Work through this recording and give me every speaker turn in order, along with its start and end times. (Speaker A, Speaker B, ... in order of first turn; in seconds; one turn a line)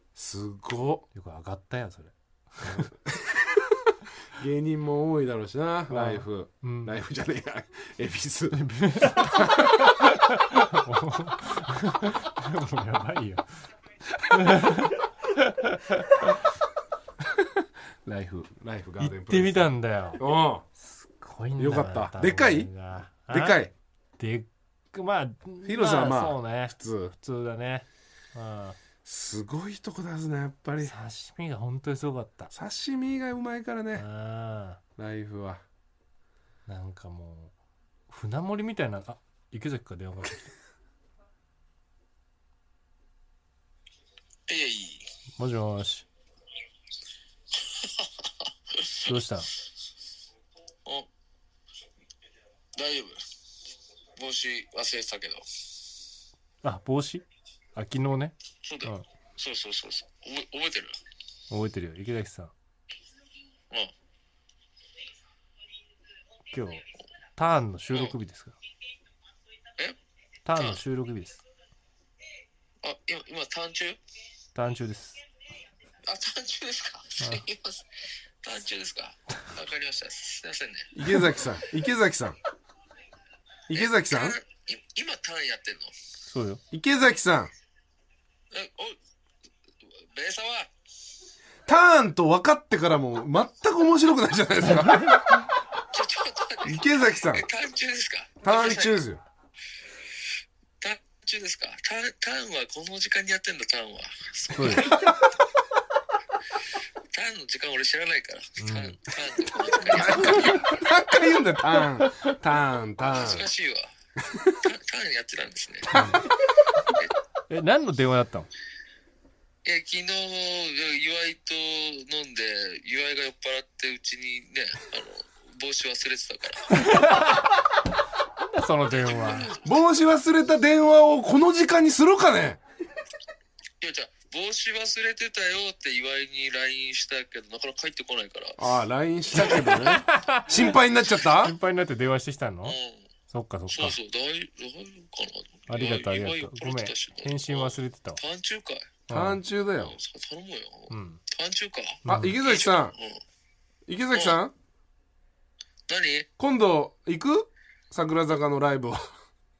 Speaker A: 0.1-1.1
Speaker B: 1.1-2.9
Speaker A: 2.6-9.9
Speaker B: 5.9-6.9
Speaker B: 8.5-13.4
Speaker B: 14.2-16.5
Speaker A: 18.0-20.6
Speaker B: 19.0-20.2
Speaker B: 20.8-28.8
Speaker A: 21.6-22.7
Speaker A: 23.3-23.7
Speaker A: 25.6-27.1
Speaker A: 29.0-30.9
Speaker B: 30.8-32.5
Speaker A: 32.5-34.0
Speaker B: 34.0-34.8
Speaker A: 35.0-35.6
Speaker B: 36.7-37.5
Speaker B: 38.1-40.5
Speaker C: 44.5-45.1
Speaker B: 45.4-46.1
Speaker C: 47.6-49.1
Speaker B: 48.9-49.5
Speaker C: 52.7-53.2
Speaker C: 54.1-55.6
Speaker B: 56.6-59.0
Speaker C: 58.6-60.9
Speaker B: 61.5-62.5
Speaker B: 66.5-66.8
Speaker B: 67.3-68.5
Speaker B: 70.5-71.4
Speaker C: 70.5-70.8
Speaker C: 72.8-74.0
Speaker B: 74.5-75.2
Speaker C: 76.0-81.2
Speaker B: 77.2-77.5
Speaker A: 80.9-82.4
Speaker A: 83.7-84.4
Speaker C: 83.7-85.9
Speaker B: 86.3-86.6
Speaker A: 86.7-87.5
Speaker C: 88.5-89.0
Speaker C: 89.9-90.7
Speaker A: 91.7-95.5
Speaker B: 94.8-95.3
Speaker C: 95.8-99.0
Speaker A: 96.6-97.5
Speaker A: 98.4-99.2
Speaker C: 100.8-105.1
Speaker B: 104.5-105.0
Speaker A: 104.6-105.3
Speaker C: 107.1-110.8
Speaker B: 108.6-109.0
Speaker A: 109.7-113.5
Speaker C: 113.0-113.9
Speaker A: 114.2-114.7
Speaker C: 114.6-115.9
Speaker A: 115.8-116.4
Speaker B: 115.9-116.3
Speaker B: 117.5-118.5
Speaker C: 119.6-127.1
Speaker B: 126.7-127.6
Speaker B: 128.4-129.5
Speaker C: 128.9-129.7
Speaker A: 129.6-132.6
Speaker C: 133.8-138.7
Speaker A: 138.6-141.5
Speaker B: 139.3-142.8
Speaker C: 142.6-143.1
Speaker B: 143.3-144.0
Speaker C: 143.7-148.9
Speaker B: 145.7-148.2
Speaker A: 149.1-150.0
Speaker B: 149.1-149.4
Speaker C: 149.8-153.2
Speaker B: 150.9-151.2
Speaker B: 152.0-152.4
Speaker A: 152.1-152.9
Speaker A: 153.9-154.5
Speaker C: 154.1-154.4
Speaker C: 155.9-156.3
Speaker A: 156.4-159.0